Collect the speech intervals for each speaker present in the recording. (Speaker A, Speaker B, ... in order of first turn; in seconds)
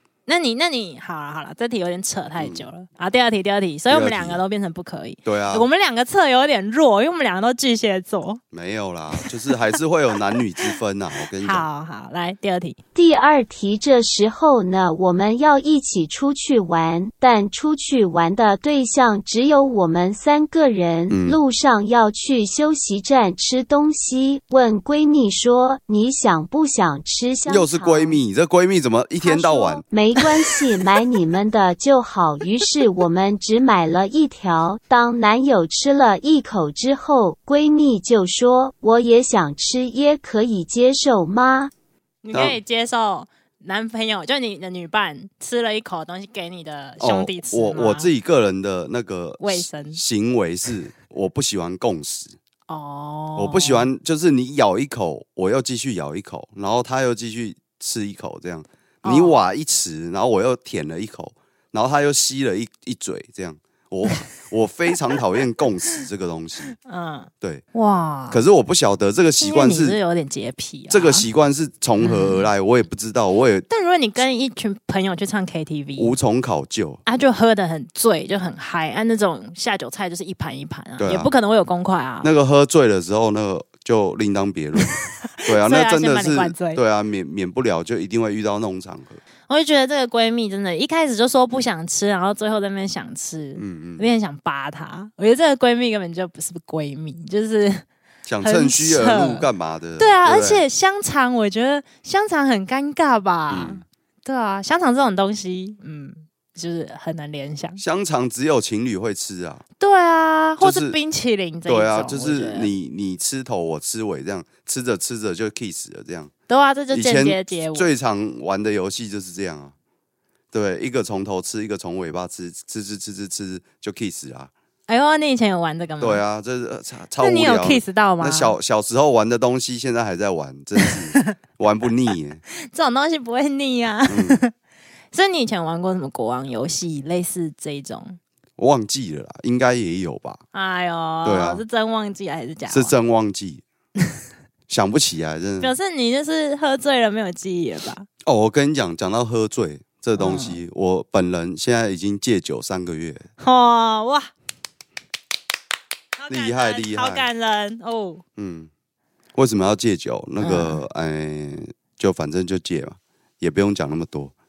Speaker A: 0.3-8.4, 10.3-10.7, 11.4-12.8, 42.2-48.1, 49.4-50.0, 52.7-53.9, 59.0-59.4, 66.8-68.4, 69.4-71.3, 72.0-72.5, 73.7-76.2, 77.1-82.3, 85.3-86.8, 89.5-97.8, 98.4-107.8, 109.8-112.7, 116.5-117.9, 124.9-126.2, 127.2-128.6, 130.8-131.4, 132.7-134.5, 135.1-138.2, 140.5-142.9, 145.6-148.1, 150.2-150.6, 153.4-154.3, 156.2-158.2, 160.4-160.8
Speaker B: 2.4-2.7, 3.9-4.4, 5.2-5.7, 8.5-11.7, 21.1-21.4, 27.5-29.8, 42.3-42.6, 47.0-52.4, 53.4-66.8, 68.3-70.0, 70.9-73.7, 76.0-77.0, 81.0-81.3, 82.2-89.2, 93.6-94.1, 98.3-100.6, 103.5-103.8, 107.8-109.6, 110.6-111.0, 111.7-116.3, 116.9-119.8, 120.5-124.5, 126.0-132.4, 134.1-134.4, 138.6-140.4, 141.2-141.6, 142.7-143.6, 144.7-145.7, 148.2-153.3, 156.3-157.3, 158.4-158.7, 159.3-164.3
Speaker C: 12.9-28.2, 29.2-41.7